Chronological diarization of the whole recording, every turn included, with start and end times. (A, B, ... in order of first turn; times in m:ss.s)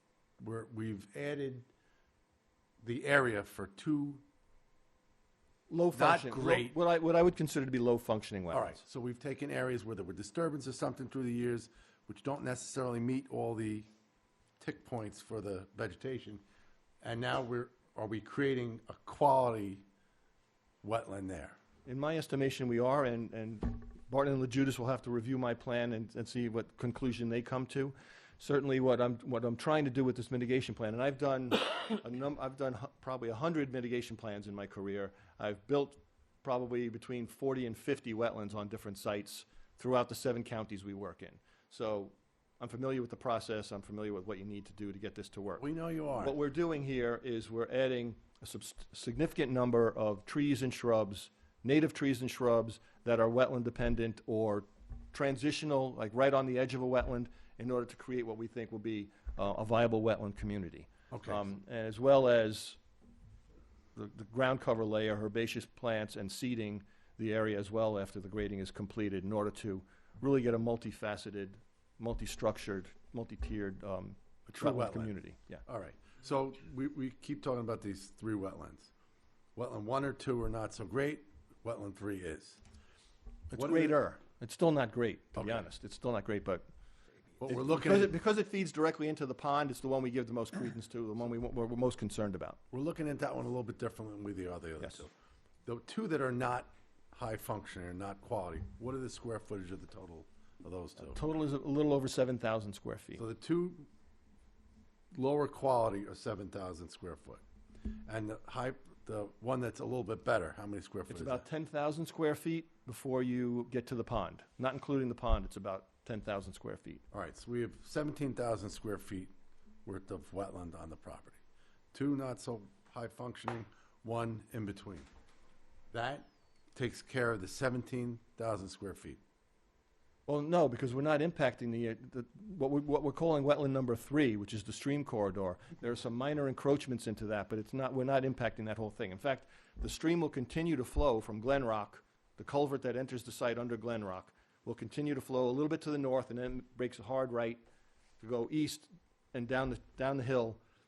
0:00.4-0:01.7 A
0:02.8-0:04.2 A
0:05.7-0:08.8 B
0:05.9-0:06.8 A
0:08.5-0:13.9 A
0:14.6-0:16.4 A
0:17.0-0:19.8 A
0:20.8-0:21.6 A
0:21.8-0:45.6 B
0:45.6-0:46.4 A
0:46.2-1:02.8 B
1:01.1-1:01.4 A
1:03.9-1:15.6 B
1:14.5-1:18.9 A
1:19.6-1:22.6 A
1:23.5-1:26.6 B
1:23.5-1:24.0 A
1:25.4-1:25.7 A
1:27.4-1:28.1 A
1:27.4-1:32.6 B
1:32.7-1:35.1 A
1:35.6-1:41.2 A
1:41.1-1:43.2 B
1:43.2-1:43.9 A
1:45.1-1:51.4 A
1:51.1-1:57.0 B
1:57.1-1:59.3 A
1:59.8-2:01.4 A
2:01.9-2:05.1 A
2:05.9-2:09.2 A
2:10.3-2:27.6 B
2:28.2-2:30.6 B